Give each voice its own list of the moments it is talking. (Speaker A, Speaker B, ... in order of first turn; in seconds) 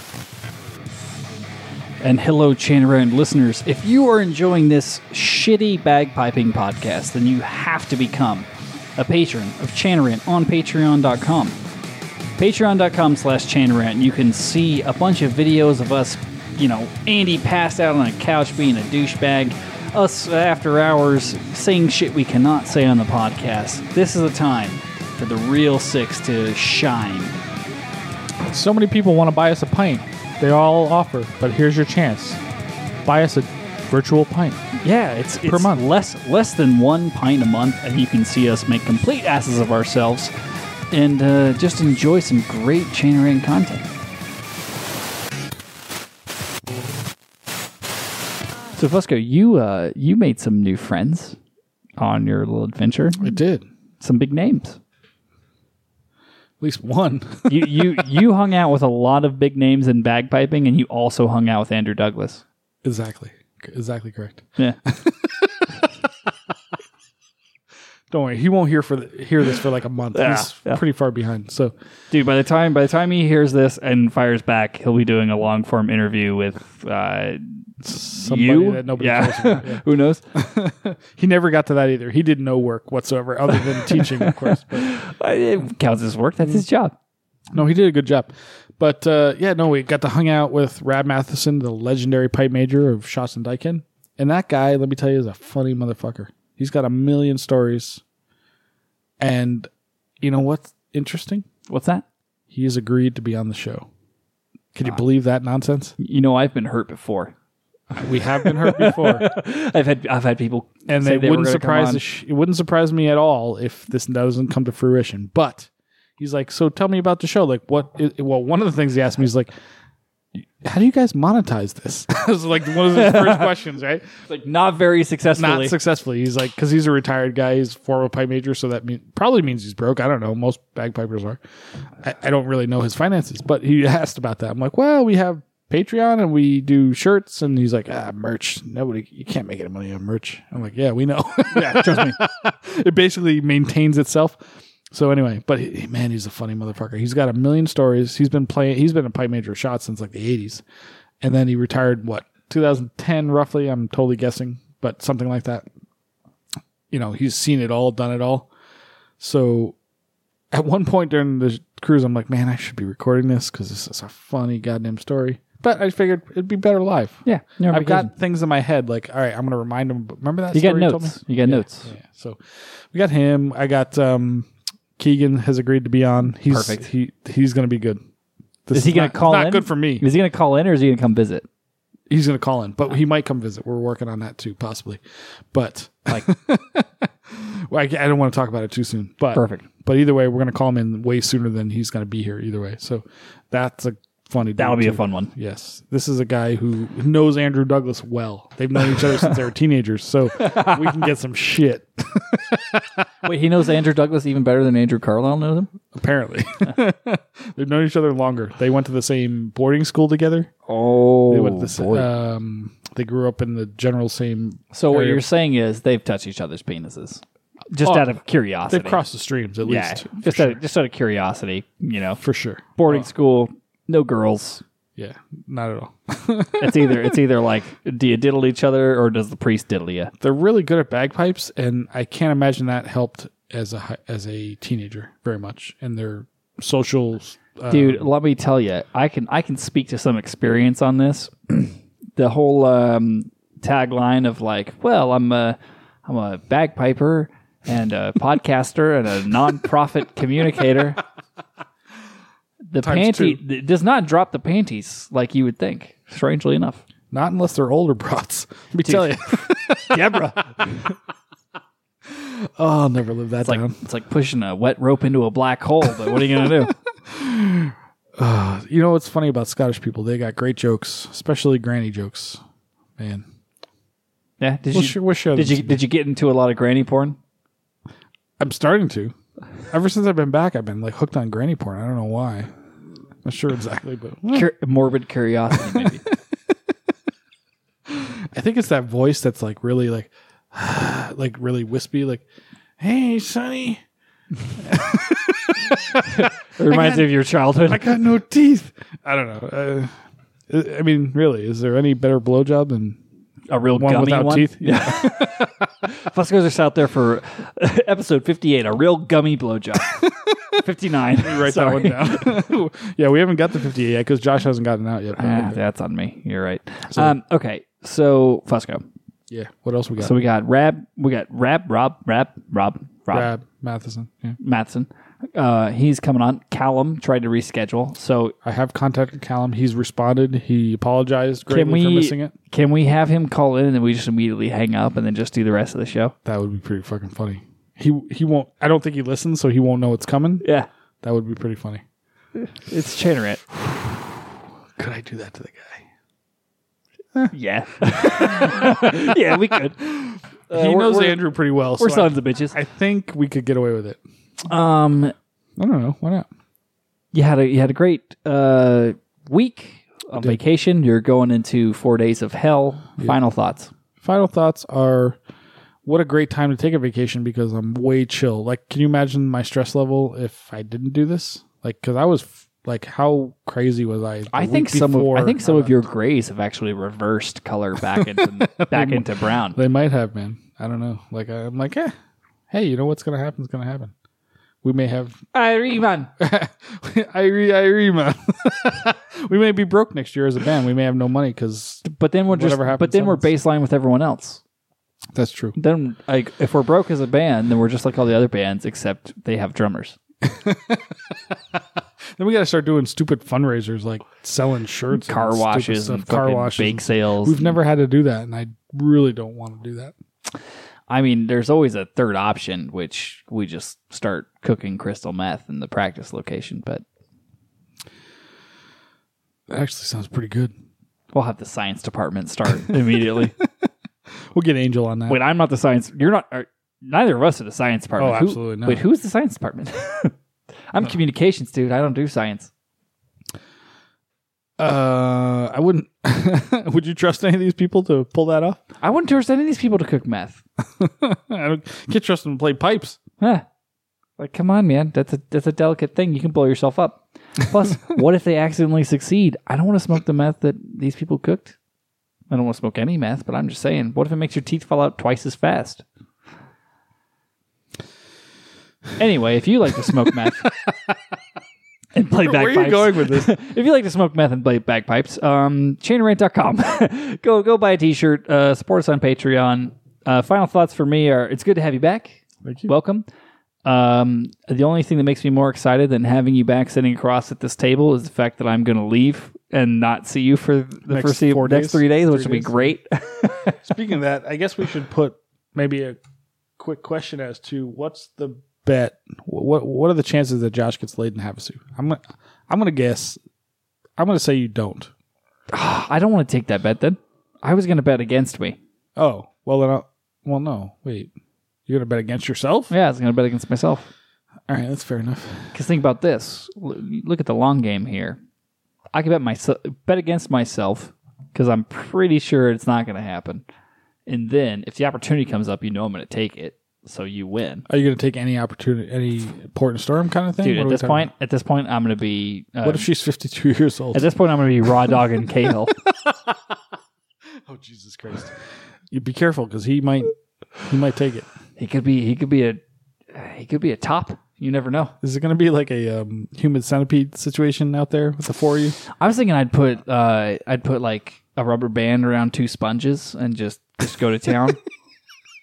Speaker A: 2.0-11.6, 12.4-27.4, 34.8-40.3, 40.9-43.9, 48.8-51.4, 52.0-53.4, 54.0-54.8, 57.5-62.4, 70.1-70.8, 72.1-80.2, 83.5-87.0, 101.7-102.0, 106.0-107.3, 108.0-112.0, 122.9-123.5, 124.3-125.8, 141.5-142.2, 167.3-168.1, 170.5-171.9, 176.5-176.8, 178.7-181.5, 189.3-189.7, 194.6-195.3, 200.4-201.0, 203.2-205.7, 210.7-212.1, 214.7-219.0, 219.6-222.2, 222.8-224.6, 226.6-230.1, 237.7-251.0, 252.7-256.8, 258.8-260.4, 263.4-266.8, 274.4-277.2, 284.3-286.0, 296.1-297.9, 303.5-310.0, 310.6-312.4, 315.2-318.8, 320.0-323.3, 324.4-328.4, 331.5-336.1, 340.4-340.7, 342.4-343.4, 347.3-349.8, 350.5-352.6, 354.5-355.1, 357.1-363.7, 374.3-379.6, 385.3-386.1, 391.8-394.4, 395.6-400.0, 404.9-407.6, 410.9-416.8, 421.1-423.4, 425.1-430.1, 430.7-432.5, 438.8-440.4, 443.2-443.5, 444.2-451.6, 452.3-455.8, 459.0-460.5, 461.9-473.1, 473.6-483.6, 495.5-498.6, 502.7-503.9, 505.5-508.2, 508.9-513.4, 514.1-517.6, 520.4-522.9, 523.9-525.7, 531.6-532.6, 533.1-535.0, 539.0-544.6
Speaker B: 28.5-32.4, 33.0-34.6, 35.4-35.8, 53.2-53.7, 56.6-58.0, 62.8-65.8, 68.1-71.7, 77.8-85.0, 87.5-98.0, 99.2-99.7, 100.2-101.5, 102.5-103.9, 104.7-105.9, 108.0-109.3, 110.9-119.5, 120.4-124.2, 125.4-131.4, 132.0-144.4, 144.9-150.6, 151.2-155.7, 156.9-158.5, 159.2-159.8, 160.5-178.0, 178.7-180.1, 182.1-185.0, 185.5-203.1, 205.9-210.5, 211.3-215.2, 217.8-218.1, 218.7-220.6, 222.2-223.1, 225.0-227.2, 230.2-238.1, 252.8-253.4, 257.1-260.9, 262.1-263.8, 267.1-272.4, 273.0-273.2, 274.7-275.8, 278.4-279.1, 279.7-282.5, 283.2-284.5, 285.7-286.5, 287.9-292.2, 292.8-293.8, 294.6-299.9, 300.5-303.0, 303.8-305.5, 309.9-310.6, 311.1-315.6, 319.3-320.2, 323.1-324.4, 328.4-332.3, 336.2-340.4, 341.0-341.8, 344.8-345.9, 347.9-354.0, 355.6-356.3, 364.0-365.2, 365.9-375.9, 378.0-381.9, 382.5-383.9, 384.6-385.2, 386.2-393.3, 395.1-395.6, 400.2-401.6, 402.2-409.9, 419.5-420.5, 422.7-423.5, 424.3-425.2, 428.0-428.8, 434.6-438.6, 440.8-443.0, 460.5-460.9, 462.1-463.4, 472.4-472.7, 480.9-482.8, 483.5-486.0, 486.6-493.2, 494.0-494.9, 499.0-501.1, 501.7-502.7, 504.5-505.5, 517.7-521.1, 522.6-524.1, 525.7-526.4, 527.5-528.4, 528.9-530.1, 530.6-531.3, 535.0-538.8